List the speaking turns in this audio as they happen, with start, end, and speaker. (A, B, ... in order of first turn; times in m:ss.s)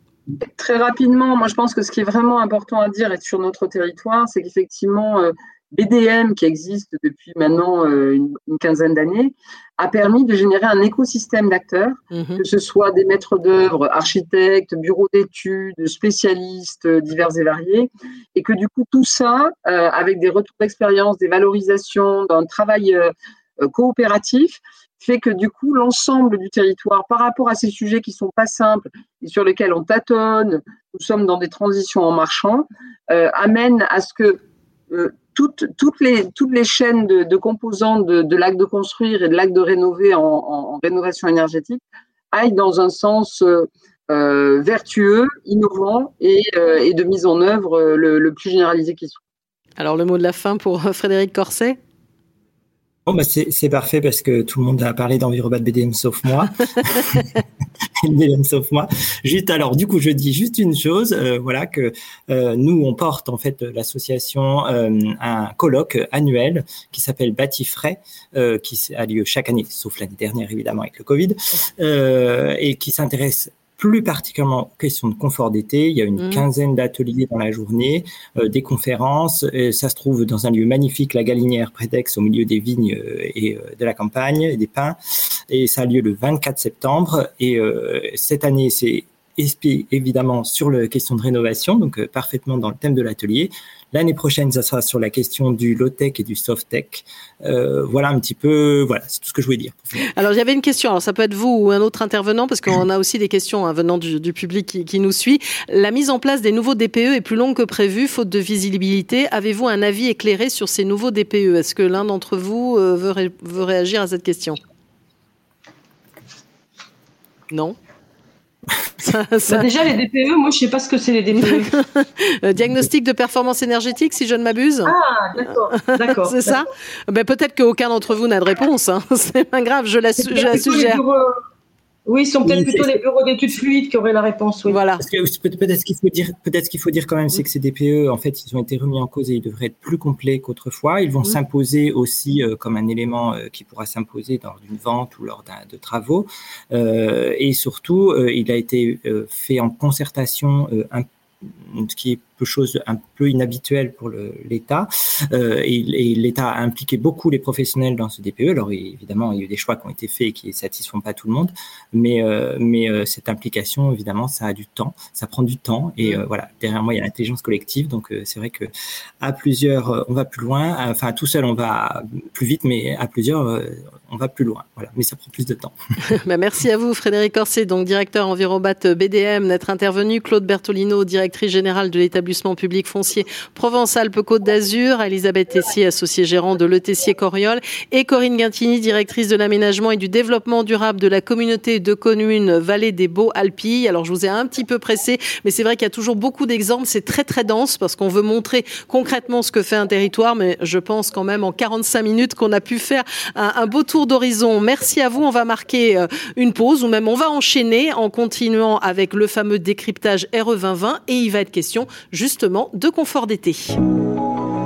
0:00.4-0:41.8 A
0:12.1-0:12.4 B
0:42.3-0:49.2 A
0:49.8-0:51.8 B
0:53.0-0:57.4 C
0:58.0-1:40.0 C
1:40.0-1:54.6 B
1:57.5-1:57.8 B
1:59.0-1:59.6 B
1:59.4-2:01.7 D
2:01.3-2:04.9 B
2:04.8-2:06.6 D
2:05.8-2:11.0 B
2:10.2-2:11.4 D
2:12.0-2:14.8 D
2:12.4-2:13.0 C
2:14.7-2:15.0 B
2:15.0-2:55.7 C
2:56.1-3:33.8 B